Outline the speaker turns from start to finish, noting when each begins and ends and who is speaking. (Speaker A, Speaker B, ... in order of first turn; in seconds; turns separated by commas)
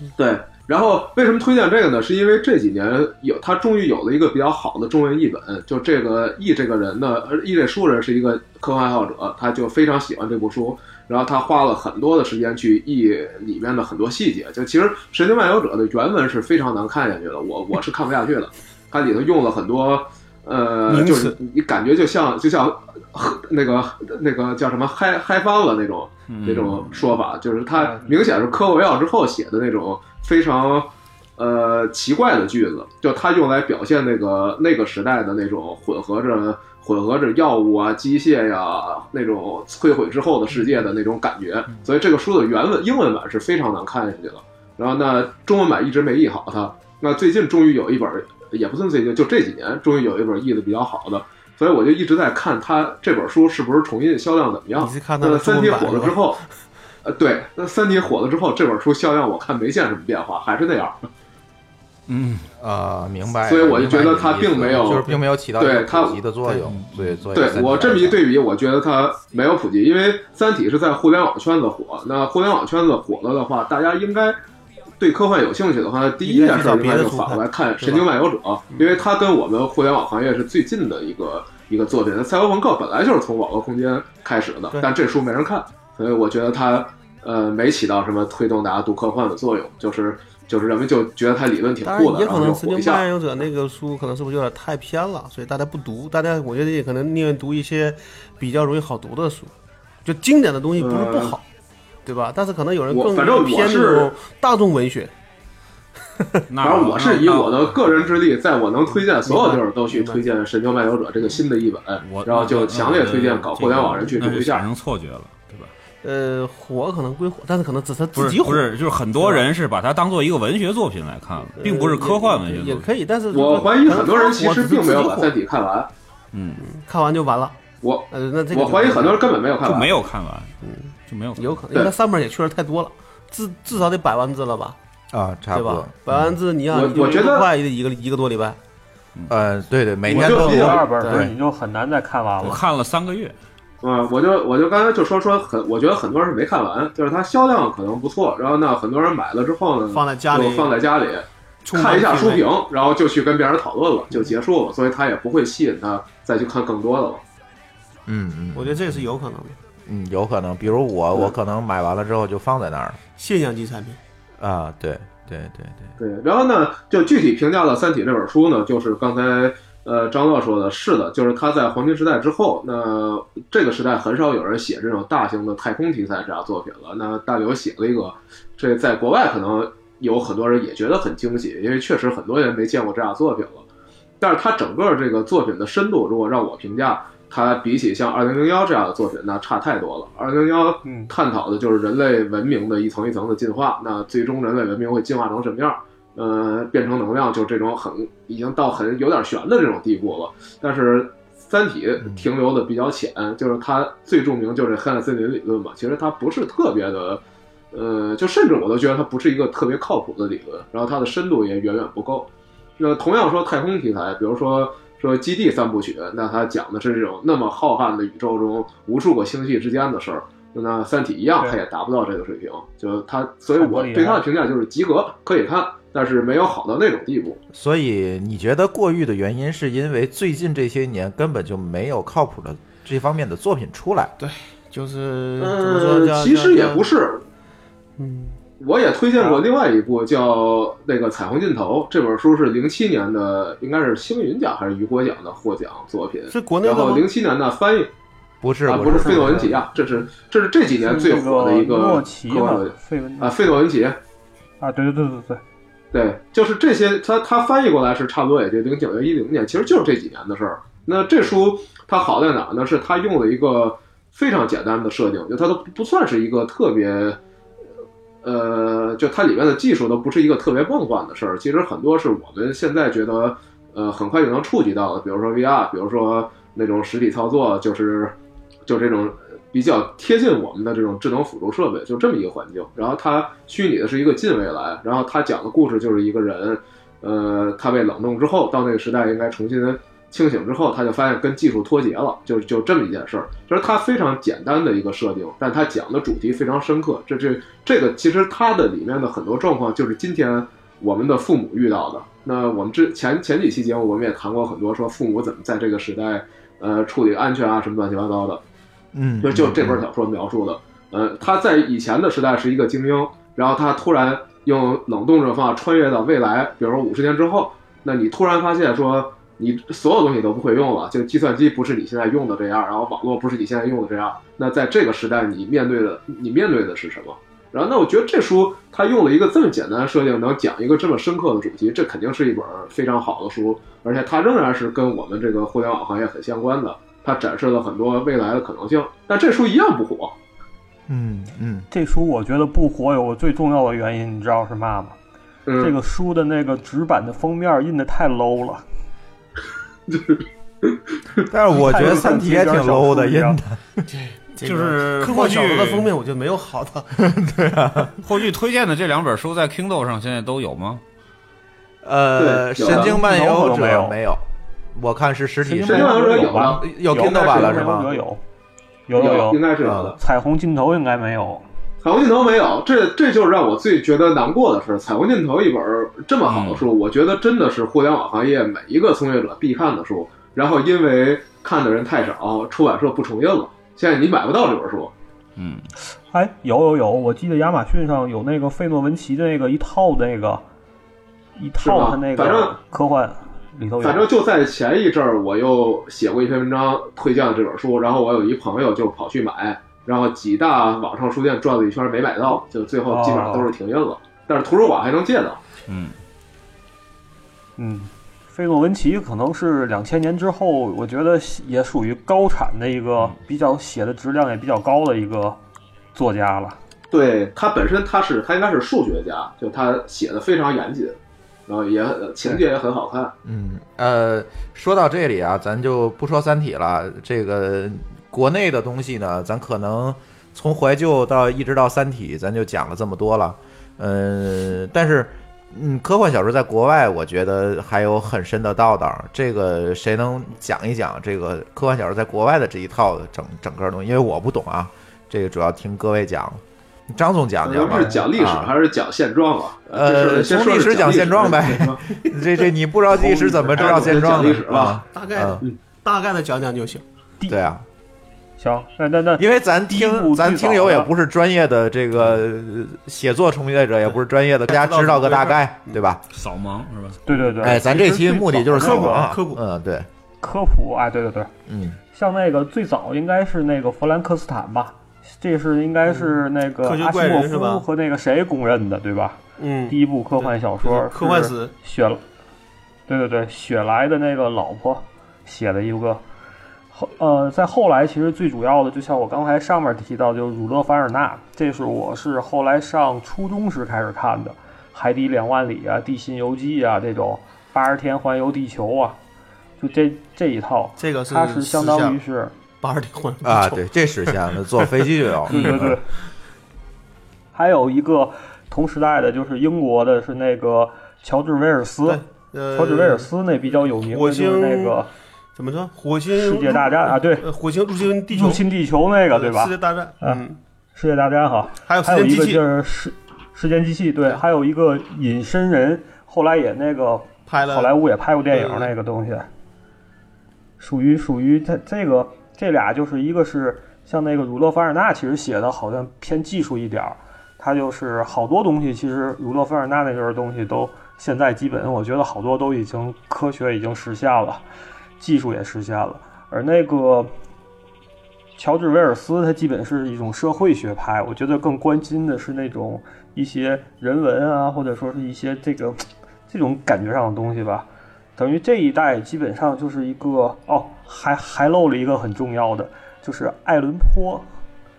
Speaker A: 0.1-56.4, Speaker B: 20.9-21.4, Speaker C: 26.3-27.2, Speaker B: 54.8-56.2, Speaker A: 57.0-61.0, Speaker C: 62.1-62.5, Speaker D: 62.6-68.2, Speaker A: 63.4-66.2, Speaker C: 66.7-67.2, Speaker A: 67.3-74.4, Speaker A: 75.0-93.0, Speaker B: 76.2-78.0, Speaker B: 91.8-99.5, Speaker B: 100.0-101.4, Speaker A: 100.8-101.4, Speaker B: 102.0-105.1, Speaker A: 102.9-104.1, Speaker C: 106.5-107.9, Speaker A: 106.6-114.7, Speaker B: 108.9-110.2, Speaker C: 112.0-115.7, Speaker B: 116.0-119.4, Speaker C: 118.1-122.9, Speaker B: 121.6-125.3, Speaker A: 123.3-125.9, Speaker C: 126.3-126.6, Speaker B: 126.6-127.6, Speaker A: 127.8-130.0, Speaker B: 128.1-129.3, Speaker C: 129.6-131.6, Speaker B: 130.6-134.8, Speaker D: 135.1-136.4, Speaker B: 135.5-138.6, Speaker A: 136.7-137.5, Speaker D: 139.3-141.3, Speaker A: 140.1-141.2, Speaker E: 140.1-142.6, Speaker C: 142.4-143.3, Speaker A: 143.8-157.2, Speaker B: 149.9-150.7, Speaker B: 151.6-152.4, Speaker D: 158.1-159.0, Speaker B: 158.5-159.6, Speaker D: 159.8-163.0, Speaker B: 163.2-164.0, Speaker D: 164.4-165.9, Speaker A: 166.0-183.6, Speaker A: 184.2-227.4, Speaker E: 190.8-191.1, Speaker D: 202.0-202.3, Speaker E: 223.5-224.2, Speaker D: 227.5-234.1, Speaker B: 234.2-236.8, Speaker A: 235.4-237.2, Speaker B: 238.0-238.4, Speaker A: 238.6-247.9, Speaker B: 246.3-247.0, Speaker D: 248.4-249.6, Speaker A: 248.6-254.0, Speaker E: 250.8-253.6, Speaker E: 254.6-255.4, Speaker A: 255.9-267.2, Speaker A: 268.2-278.1, Speaker A: 278.6-308.4, Speaker D: 308.9-309.8, Speaker A: 309.2-340.1, Speaker D: 340.9-341.7, Speaker E: 341.7-344.9, Speaker A: 345.5-345.8, Speaker E: 345.6-348.6, Speaker A: 349.9-351.2, Speaker D: 351.3-353.8, Speaker E: 351.5-353.4, Speaker B: 353.9-356.9, Speaker C: 354.4-355.9, Speaker D: 356.9-358.0, Speaker C: 358.0-360.8, Speaker D: 361.8-364.2, Speaker A: 362.2-363.0, Speaker E: 362.6-363.9, Speaker D: 364.7-368.0, Speaker E: 365.4-368.2, Speaker A: 365.6-367.8, Speaker E: 368.9-371.4, Speaker A: 368.9-369.9, Speaker D: 369.6-369.9, Speaker A: 371.8-384.9, Speaker C: 376.2-376.6, Speaker C: 385.4-385.7, Speaker E: 386.1-390.4, Speaker E: 391.4-394.1, Speaker A: 391.6-392.5, Speaker A: 393.8-405.4, Speaker E: 402.9-403.5, Speaker C: 405.7-405.9, Speaker E: 407.6-415.4, Speaker E: 415.9-416.6, Speaker A: 416.9-423.1, Speaker D: 423.2-448.5, Speaker A: 447.4-452.0, Speaker D: 449.7-455.4, Speaker B: 452.9-456.8, Speaker A: 453.5-454.8, Speaker D: 457.3-457.6, Speaker E: 458.4-460.9, Speaker D: 459.2-466.0, Speaker B: 464.5-465.8, Speaker C: 466.1-467.0, Speaker E: 467.1-469.1, Speaker D: 467.4-469.9, Speaker B: 467.6-469.4, Speaker E: 470.2-471.3, Speaker D: 471.5-471.8, Speaker E: 471.9-482.0, Speaker B: 475.8-477.6, Speaker B: 479.4-481.5, Speaker E: 482.9-486.0, Speaker E: 486.7-499.0, Speaker E: 499.6-502.3, Speaker B: 500.8-502.0, Speaker B: 502.6-504.1, Speaker D: 503.2-505.8, Speaker E: 505.3-505.8, Speaker E: 507.3-512.0, Speaker B: 511.8-513.1, Speaker E: 512.5-514.9, Speaker B: 513.9-514.8, Speaker B: 515.4-518.4, Speaker E: 516.1-517.3, Speaker E: 518.1-529.3, Speaker B: 519.1-520.4, Speaker B: 521.7-522.4, Speaker B: 527.3-527.7, Speaker B: 528.3-528.7, Speaker E: 530.6-544.4, Speaker E: 545.0-547.1, Speaker E: 548.4-564.2